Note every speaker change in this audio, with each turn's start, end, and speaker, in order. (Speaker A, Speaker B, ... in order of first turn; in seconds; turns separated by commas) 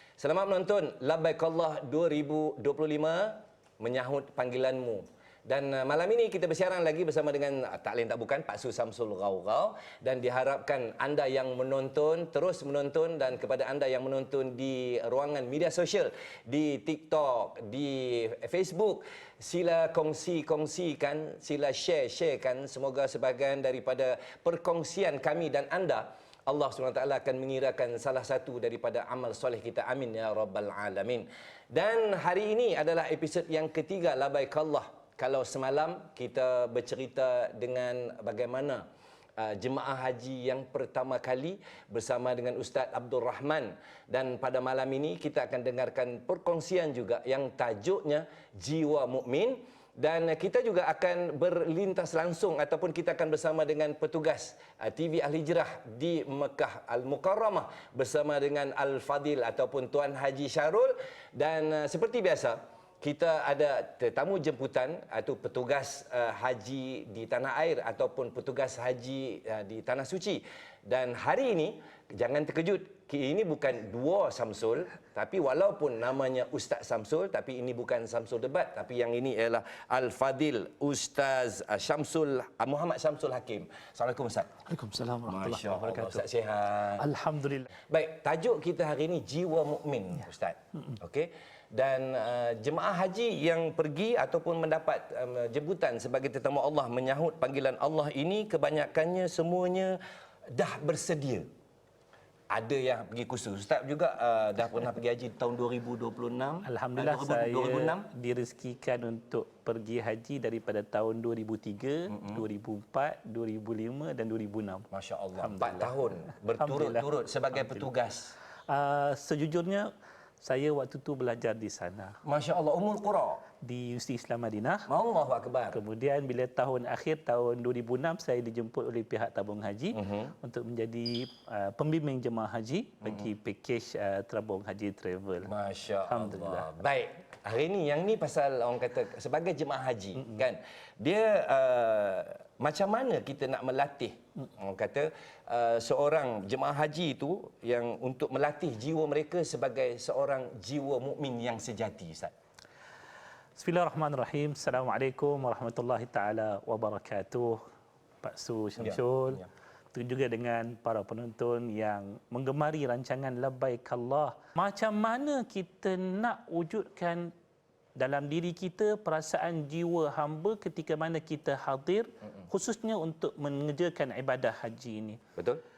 Speaker A: 0.2-84.6, Speaker B: 84.7-86.2, Speaker A: 85.3-87.1, Speaker B: 87.0-87.7, Speaker A: 87.9-101.5, Speaker A: 102.5-108.1, Speaker B: 106.6-114.9, Speaker A: 112.1-112.4, Speaker A: 114.9-118.3, Speaker B: 115.4-115.9, Speaker B: 116.6-117.1, Speaker B: 118.7-119.9, Speaker B: 120.4-122.2, Speaker A: 122.2-123.4, Speaker B: 123.6-124.9, Speaker A: 124.9-125.8, Speaker B: 125.7-135.5, Speaker A: 129.9-130.3, Speaker A: 135.4-152.3, Speaker B: 136.1-136.7, Speaker B: 153.6-157.6, Speaker B: 158.2-159.4, Speaker A: 158.8-159.5, Speaker B: 159.9-167.3, Speaker B: 167.9-175.2, Speaker A: 175.3-175.6